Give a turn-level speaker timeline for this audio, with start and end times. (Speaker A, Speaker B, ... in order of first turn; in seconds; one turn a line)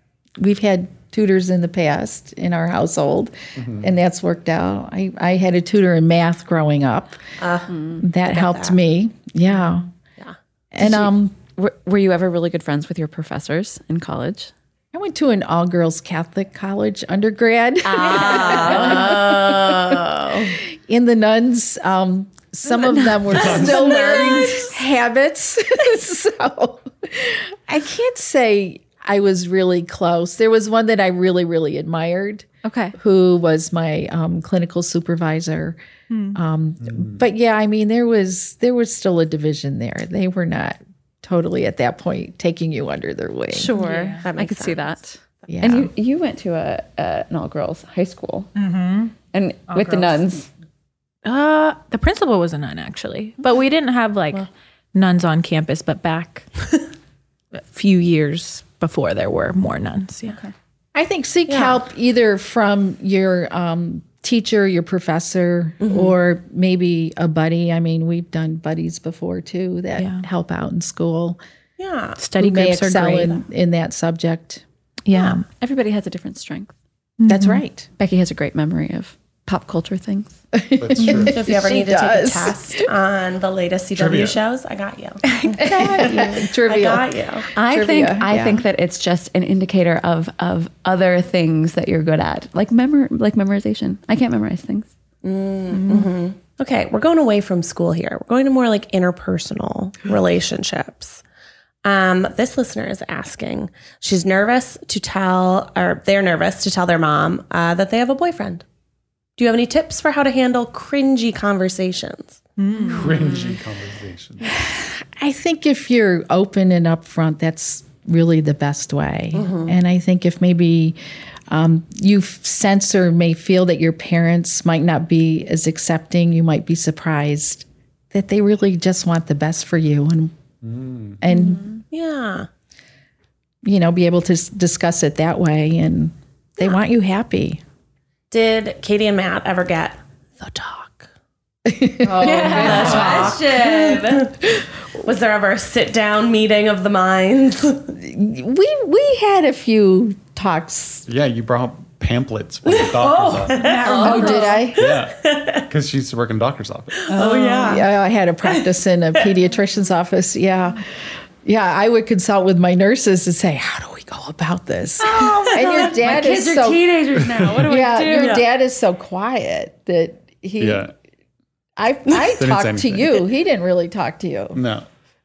Speaker A: 0.4-7.2
Speaker B: 3.6-3.9
Speaker C: 7.4-8.8
Speaker D: 7.7-8.0
Speaker A: 8.0-9.9
Speaker A: 10.7-11.3
Speaker D: 10.8-14.5
Speaker A: 14.9-20.0
Speaker D: 17.8-19.2
Speaker C: 18.1-20.6
Speaker A: 20.9-35.8
Speaker D: 22.7-24.6
Speaker C: 23.3-24.7
Speaker B: 23.3-23.7
Speaker D: 32.6-32.9
Speaker E: 36.1-36.4
Speaker A: 36.3-43.7
Speaker B: 36.8-37.2
Speaker D: 43.5-48.5
Speaker E: 43.7-44.2
Speaker C: 44.2-45.0
Speaker A: 45.5-45.9
Speaker E: 48.5-49.1
Speaker D: 49.3-50.5
Speaker E: 49.7-50.3
Speaker E: 51.2-56.8
Speaker E: 57.5-60.4
Speaker A: 60.9-71.4
Speaker C: 61.5-61.8
Speaker C: 65.8-66.1
Speaker E: 70.0-70.2
Speaker C: 71.8-72.2
Speaker E: 72.2-73.4
Speaker A: 72.3-74.6
Speaker E: 75.0-75.5
Speaker D: 75.4-76.7
Speaker E: 77.2-77.6
Speaker A: 77.2-77.9
Speaker D: 78.0-80.4
Speaker A: 80.5-82.9
Speaker B: 80.8-81.3
Speaker C: 81.1-85.2
Speaker B: 83.9-84.4
Speaker A: 85.5-88.7
Speaker C: 86.0-87.5
Speaker D: 87.5-94.9
Speaker C: 95.2-101.2
Speaker E: 95.7-96.1
Speaker C: 101.8-108.6
Speaker C: 109.4-112.4
Speaker E: 112.6-113.3
Speaker B: 112.8-114.6
Speaker A: 114.4-130.3
Speaker C: 119.3-119.7
Speaker B: 130.6-131.2
Speaker A: 131.2-131.7
Speaker D: 131.3-131.8
Speaker C: 131.9-132.5
Speaker A: 133.6-137.6
Speaker C: 138.3-141.1
Speaker A: 141.7-143.4
Speaker D: 142.0-144.3
Speaker C: 142.2-147.9
Speaker B: 142.8-143.2
Speaker A: 148.0-151.1
Speaker B: 151.1-153.7
Speaker C: 152.7-155.7
Speaker E: 153.2-154.6
Speaker D: 153.8-154.6
Speaker A: 154.0-154.9
Speaker B: 154.8-157.1
Speaker C: 157.0-157.8
Speaker E: 157.1-157.8
Speaker A: 157.6-160.8
Speaker A: 161.4-166.9
Speaker C: 165.0-166.0
Speaker D: 165.2-168.4
Speaker B: 167.2-167.6
Speaker A: 167.6-170.8
Speaker C: 168.1-168.4
Speaker B: 170.6-170.9
Speaker A: 171.8-174.6
Speaker B: 172.4-173.2
Speaker B: 174.5-174.9